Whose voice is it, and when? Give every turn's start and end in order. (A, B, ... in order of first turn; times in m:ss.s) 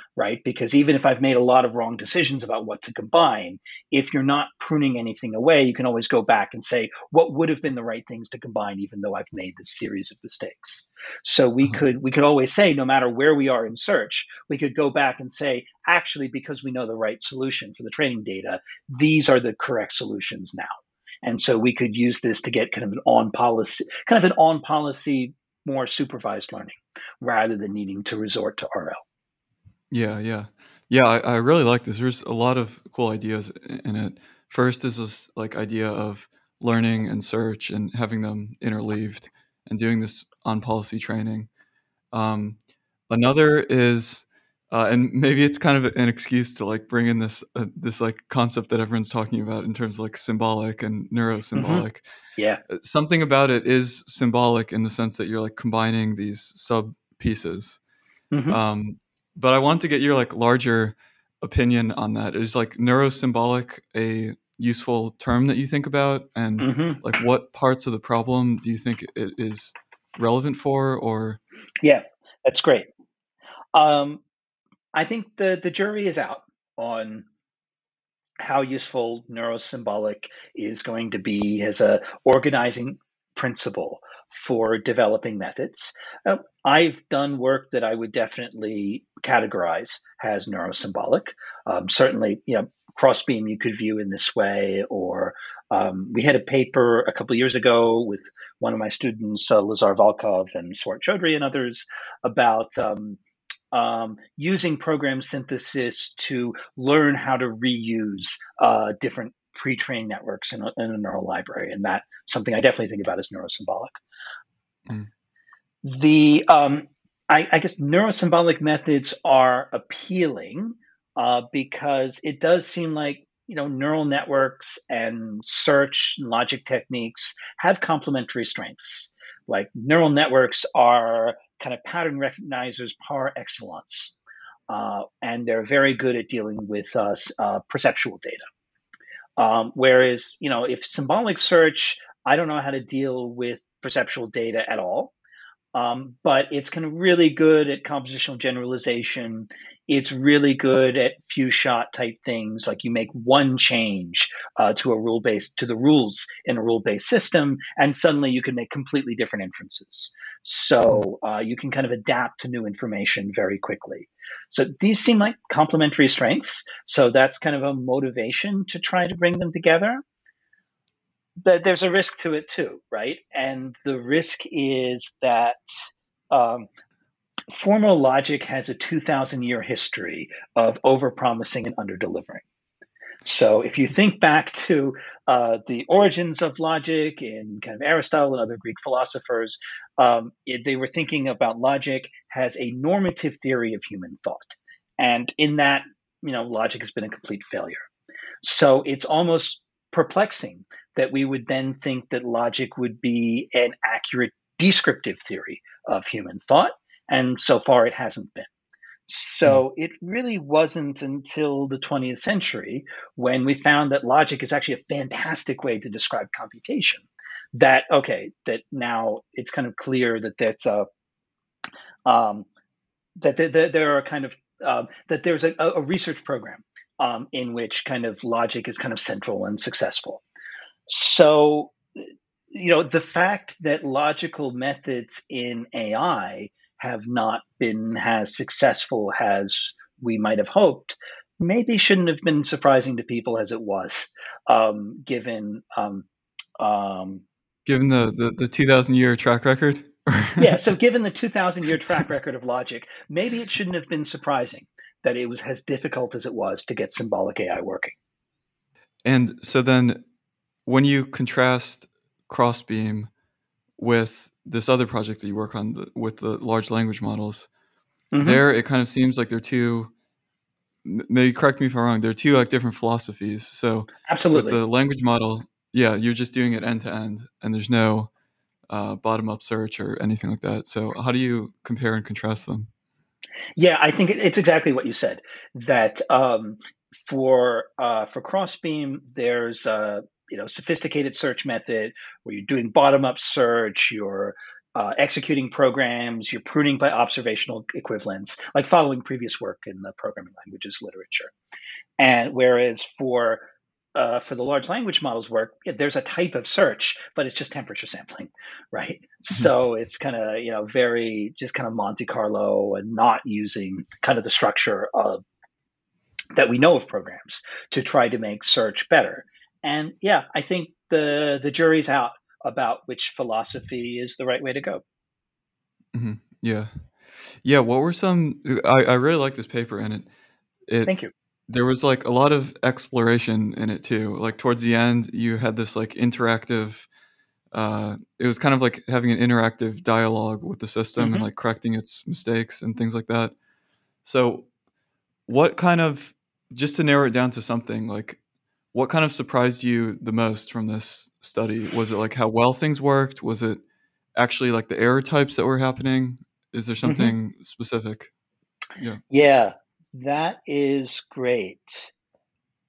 0:00.2-0:29.0 A
0:29.9-0:41.5 B
0:42.1-0:42.6 B
0:43.1-0:52.0 B
0:51.5-0:51.8 A
0:52.7-0:57.8 B
0:58.3-0:58.6 A
0:58.5-1:11.4 B
1:06.6-1:07.0 A
1:11.8-1:12.9 A
1:13.7-1:14.2 A
1:14.9-1:17.2 A
1:18.4-1:43.2 A
1:43.7-1:54.0 A
1:55.8-2:14.2 A
2:14.7-2:18.4 A
2:19.4-2:25.1 A
2:25.7-2:50.0 A
2:51.4-2:55.6 A
2:56.3-2:56.7 A
2:57.5-3:02.4 A
3:03.2-3:17.8 A
3:18.4-3:28.5 A
3:29.1-3:40.9 A
3:42.0-3:42.5 A
3:43.2-3:50.2 A
3:50.9-4:06.1 A
4:06.6-4:07.2 A
4:07.6-4:10.6 B
4:10.4-4:18.0 A
4:19.0-4:20.0 B
4:20.6-4:23.1 B
4:23.8-4:27.5 B
4:28.1-4:28.4 A
4:28.2-4:29.9 B
4:30.8-4:38.1 B
4:34.1-4:34.6 A
4:38.7-4:42.7 B
4:43.6-5:01.3 A
5:02.0-5:15.2 A
5:16.3-5:24.8 A
5:25.9-5:30.1 B
5:30.7-5:30.9 B
5:30.8-5:31.1 A
5:31.5-5:36.9 B
5:37.5-5:43.3 B
5:41.0-5:41.2 A
5:44.0-5:44.5 B
5:45.3-5:48.2 B
5:48.7-5:53.6 B
5:54.1-5:58.1 B
5:56.8-5:57.1 A
5:59.1-6:01.9 A